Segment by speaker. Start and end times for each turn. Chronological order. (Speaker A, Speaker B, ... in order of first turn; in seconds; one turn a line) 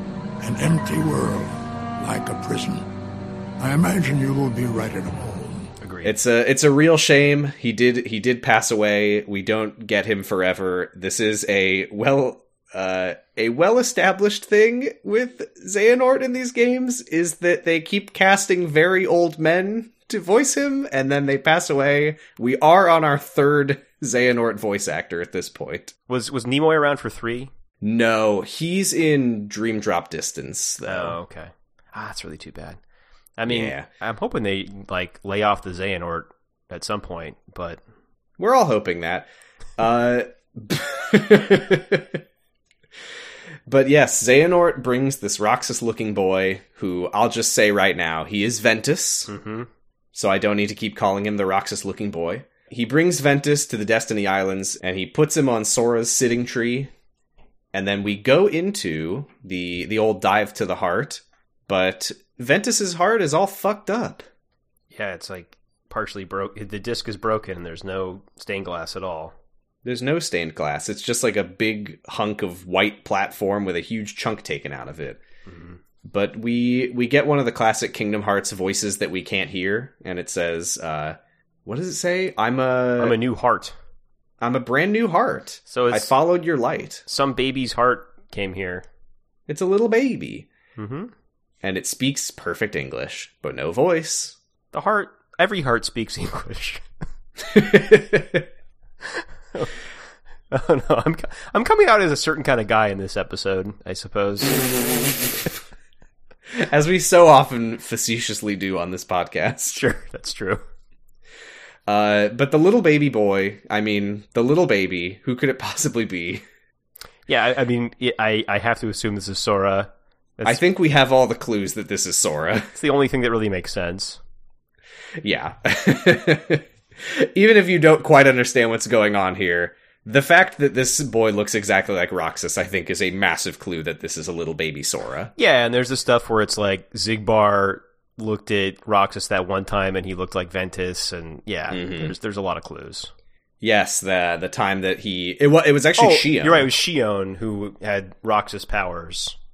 Speaker A: 0.4-2.9
Speaker A: 3.6-5.7
Speaker B: 5.8-6.1
Speaker C: 6.0-25.9
Speaker B: 26.1-27.5
Speaker C: 27.8-31.2
Speaker B: 30.8-32.8
Speaker B: 33.4-37.8
Speaker C: 33.5-33.9
Speaker C: 38.4-42.2
Speaker C: 43.7-49.3
Speaker B: 49.3-49.7
Speaker C: 50.1-56.9
Speaker C: 57.7-64.2
Speaker B: 64.9-69.3
Speaker C: 69.8-75.2
Speaker B: 75.5-75.8
Speaker C: 76.0-83.2
Speaker B: 83.0-83.7
Speaker C: 84.4-87.0
Speaker B: 85.7-86.1
Speaker B: 87.0-88.8
Speaker C: 89.5-90.5
Speaker B: 90.8-91.1
Speaker C: 91.6-94.3
Speaker B: 94.7-96.8
Speaker C: 97.5-98.4
Speaker B: 99.1-99.7
Speaker B: 100.5-104.6
Speaker C: 106.5-109.8
Speaker B: 109.7-110.6
Speaker C: 111.9-116.4
Speaker B: 117.3-120.6
Speaker C: 120.4-122.7
Speaker B: 122.7-124.2
Speaker C: 125.2-135.3
Speaker B: 135.4-143.1
Speaker C: 141.7-142.1
Speaker C: 143.6-146.7
Speaker B: 146.0-149.3